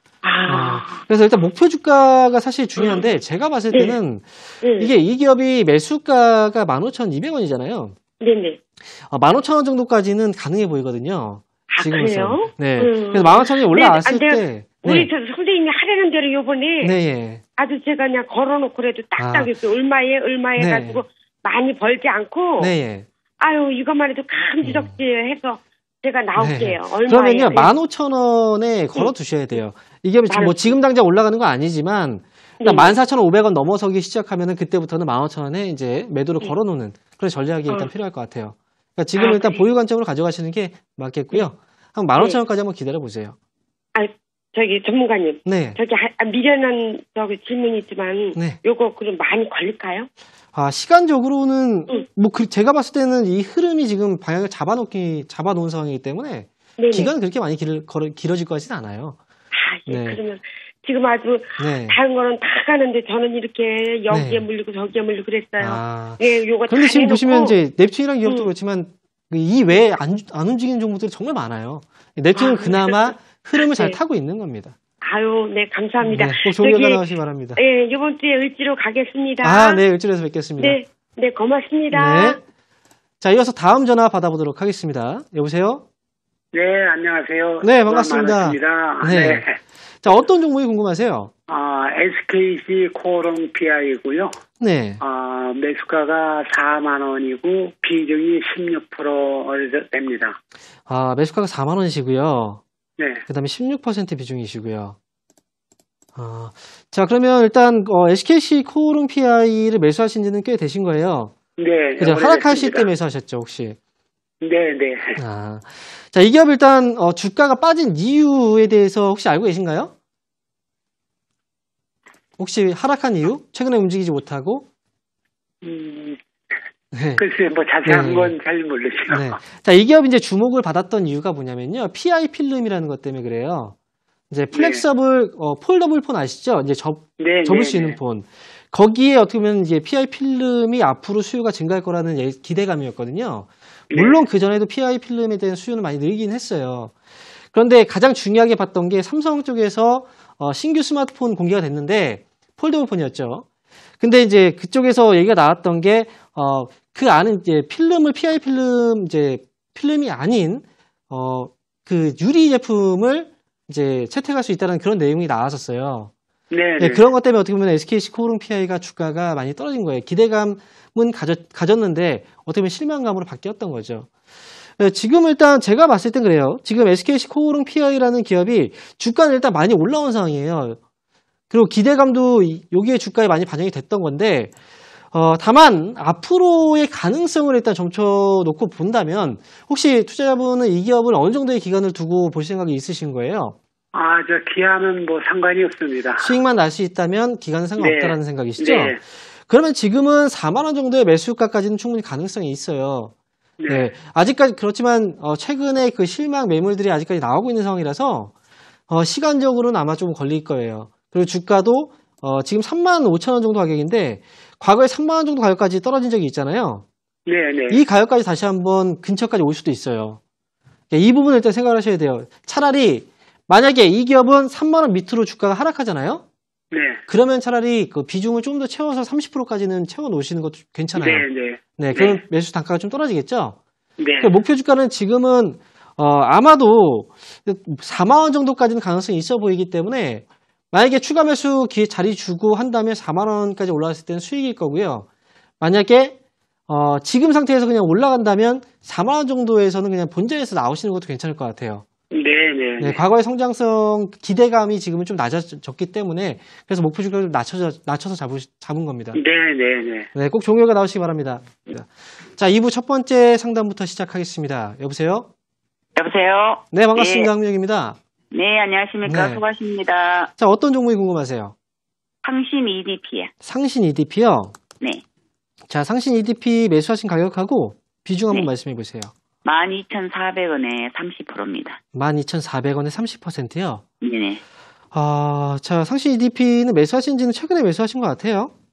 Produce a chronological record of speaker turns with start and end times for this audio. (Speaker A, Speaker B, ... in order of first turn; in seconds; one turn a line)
Speaker A: 0.2-1.0
Speaker B: 0.4-8.0
Speaker A: 2.8-3.0
Speaker A: 3.7-4.0
Speaker A: 4.6-4.9
Speaker A: 8.2-8.6
Speaker B: 8.9-15.1
Speaker A: 11.7-17.0
Speaker B: 16.8-17.4
Speaker A: 17.6-22.7
Speaker B: 19.2-19.5
Speaker B: 20.6-21.0
Speaker B: 22.6-23.1
Speaker A: 23.4-27.7
Speaker B: 24.6-24.9
Speaker B: 26.4-43.3
Speaker A: 30.3-30.8
Speaker A: 32.6-33.0
Speaker A: 39.1-39.6
Speaker A: 43.9-50.1
Speaker B: 45.5-45.8
Speaker B: 50.5-59.2
Speaker A: 56.8-57.1
Speaker A: 59.5-67.5
Speaker B: 59.9-60.2
Speaker B: 61.6-62.0
Speaker B: 64.1-64.5
Speaker B: 65.6-74.8
Speaker A: 68.2-68.5
Speaker A: 72.3-74.0
Speaker A: 75.0-79.8
Speaker B: 76.0-77.6
Speaker B: 79.4-80.8
Speaker A: 80.6-82.4
Speaker B: 81.9-82.4
Speaker B: 83.2-85.8
Speaker C: 86.5-89.5
Speaker B: 87.6-89.4
Speaker B: 90.0-91.3
Speaker C: 91.5-94.3
Speaker B: 94.6-95.0
Speaker C: 95.0-100.4
Speaker B: 100.9-102.6
Speaker B: 103.3-105.0
Speaker B: 106.2-111.3
Speaker C: 111.6-112.9
Speaker B: 112.0-113.8
Speaker C: 114.4-115.2
Speaker B: 115.2-119.9
Speaker B: 122.4-124.7
Speaker C: 125.6-126.2
Speaker B: 126.9-127.2
Speaker C: 127.2-129.4
Speaker B: 127.8-128.3
Speaker B: 129.1-133.8
Speaker B: 134.3-146.9
Speaker C: 134.5-134.8
Speaker C: 137.2-138.0
Speaker C: 143.9-144.2
Speaker B: 147.5-153.4
Speaker B: 154.0-166.1
Speaker C: 166.5-167.0
Speaker B: 166.8-174.1
Speaker B: 174.8-180.8
Speaker B: 181.5-184.5
Speaker B: 185.1-193.6
Speaker C: 193.9-196.4
Speaker B: 196.2-203.1
Speaker C: 197.8-199.0
Speaker C: 203.6-203.9
Speaker B: 203.7-208.3
Speaker B: 208.9-216.8
Speaker C: 217.3-217.8
Speaker B: 217.7-220.2
Speaker B: 220.9-226.2
Speaker C: 226.7-227.0
Speaker B: 227.1-231.2
Speaker C: 230.9-232.2
Speaker B: 231.8-233.6
Speaker C: 234.0-234.3
Speaker B: 234.2-245.1
Speaker B: 245.6-246.2
Speaker B: 246.7-251.8
Speaker C: 252.1-253.0
Speaker B: 252.8-259.2
Speaker C: 259.1-260.1
Speaker B: 260.1-265.3
Speaker D: 265.9-267.3
Speaker B: 266.7-268.0
Speaker D: 268.3-270.3
Speaker B: 269.0-269.4
Speaker B: 270.4-271.5
Speaker D: 272.2-273.3
Speaker B: 273.4-274.5
Speaker B: 275.7-279.1
Speaker D: 279.4-281.8
Speaker B: 281.9-283.8
Speaker D: 284.0-284.4
Speaker B: 284.9-288.5